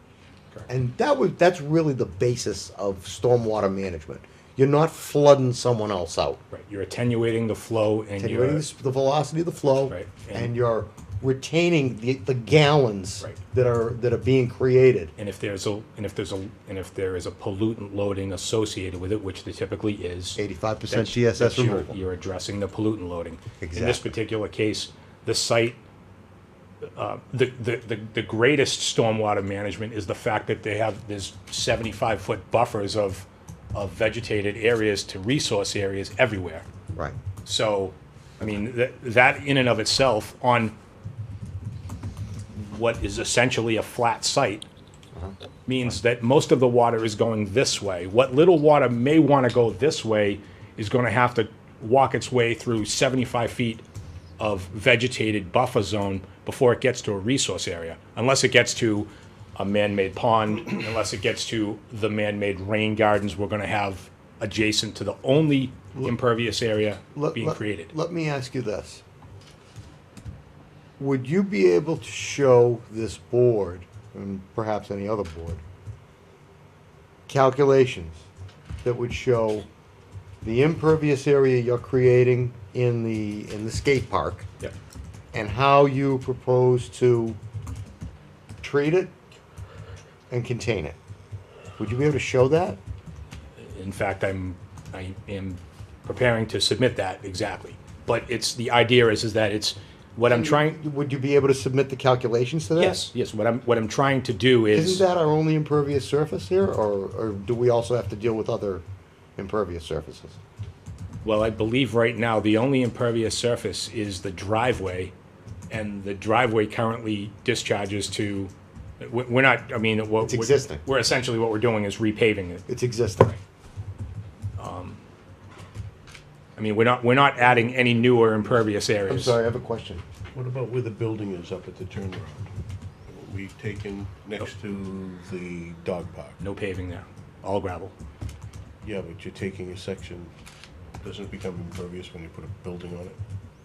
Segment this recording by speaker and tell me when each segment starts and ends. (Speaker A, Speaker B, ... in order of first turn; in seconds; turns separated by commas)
Speaker A: 0.7-6.4, Speaker B: 6.5-8.7, Speaker A: 8.2-15.1, Speaker B: 9.9-10.5, Speaker B: 15.2-25.8, Speaker A: 20.4-22.0, Speaker A: 23.6-24.1, Speaker B: 26.9-36.7, Speaker A: 36.9-37.2, Speaker B: 37.4-40.7, Speaker B: 42.5-44.7, Speaker B: 45.7-53.9, Speaker B: 54.4-67.9, Speaker A: 67.2-69.0, Speaker A: 71.0-75.6, Speaker A: 77.3-78.3, Speaker A: 78.8-79.7, Speaker A: 80.4-84.5, Speaker A: 85.3-87.4, Speaker A: 88.6-89.1, Speaker A: 90.3-91.0, Speaker A: 91.8-92.8, Speaker B: 93.6-100.8, Speaker A: 100.3-103.0, Speaker B: 102.8-105.0, Speaker A: 104.7-108.8, Speaker A: 109.4-110.4, Speaker B: 111.2-115.1, Speaker B: 115.7-122.7, Speaker A: 120.2-120.8, Speaker A: 122.7-123.4, Speaker B: 124.6-125.0, Speaker B: 126.6-129.4, Speaker A: 129.1-130.0, Speaker C: 130.3-132.5, Speaker C: 133.1-136.4, Speaker B: 136.4-137.9, Speaker C: 138.8-140.3, Speaker C: 141.0-143.2